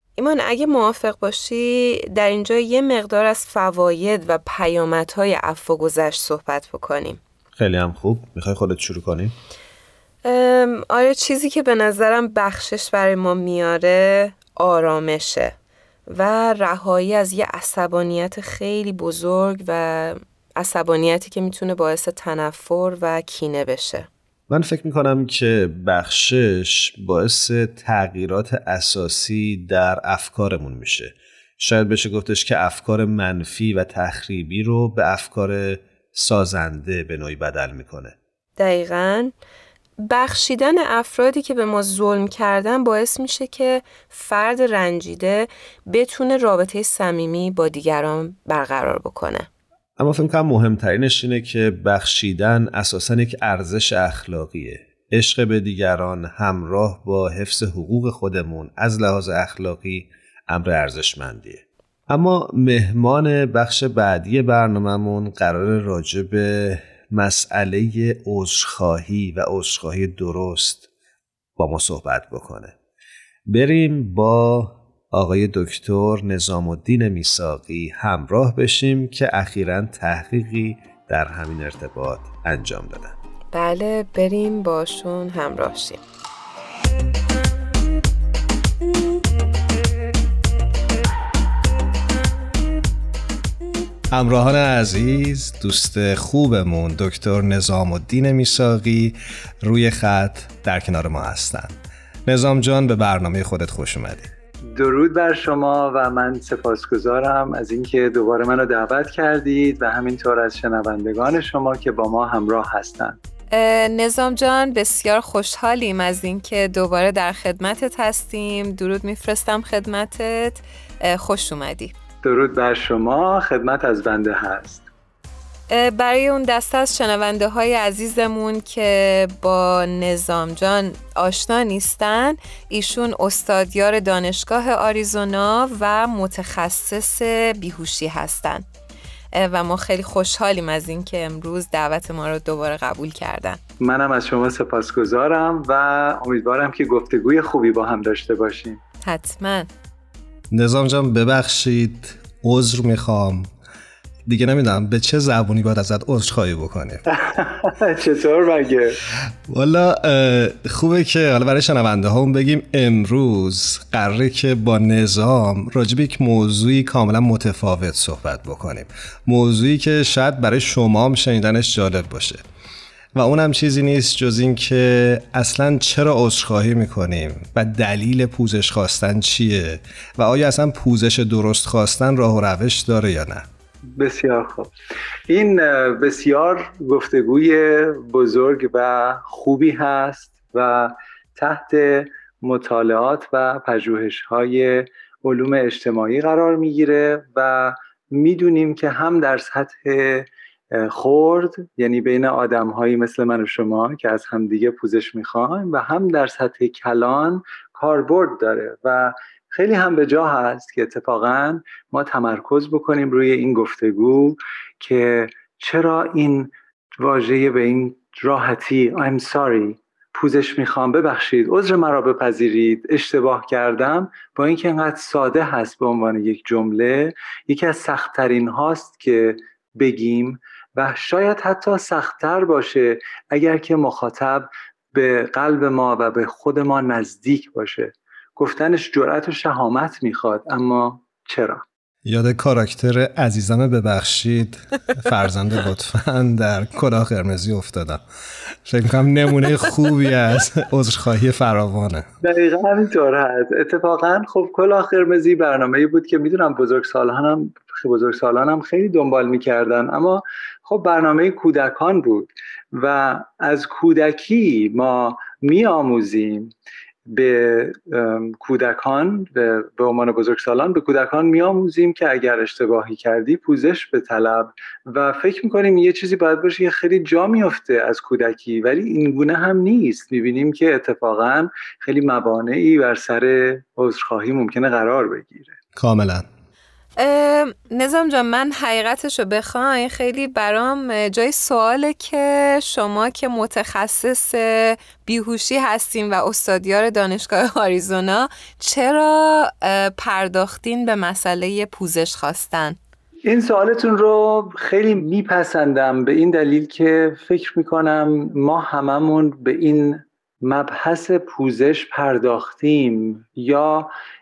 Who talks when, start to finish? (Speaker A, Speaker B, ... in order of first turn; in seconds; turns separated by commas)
Speaker A: 0.2-7.2, Speaker B: 7.5-9.3, Speaker A: 10.2-15.5, Speaker A: 16.1-24.1, Speaker B: 24.5-38.2, Speaker A: 38.6-39.3, Speaker A: 40.0-49.5, Speaker B: 50.0-70.8, Speaker B: 71.6-72.7, Speaker B: 73.5-83.1, Speaker A: 83.5-86.0, Speaker C: 94.1-101.7, Speaker C: 102.2-104.3, Speaker D: 104.7-113.2, Speaker A: 113.5-121.9, Speaker D: 122.2-124.8, Speaker A: 125.7-138.6, Speaker A: 139.3-143.6, Speaker D: 143.8-148.8, Speaker A: 149.0-149.7, Speaker C: 150.5-153.5, Speaker C: 154.3-157.0, Speaker D: 157.1-159.0, Speaker C: 159.5-172.4, Speaker C: 173.1-183.4, Speaker D: 184.0-184.7, Speaker D: 185.3-241.6, Speaker C: 242.0-248.0, Speaker C: 248.6-252.1, Speaker D: 252.2-266.5, Speaker D: 267.1-285.6, Speaker C: 285.8-286.2, Speaker A: 287.0-302.8, Speaker D: 303.2-313.9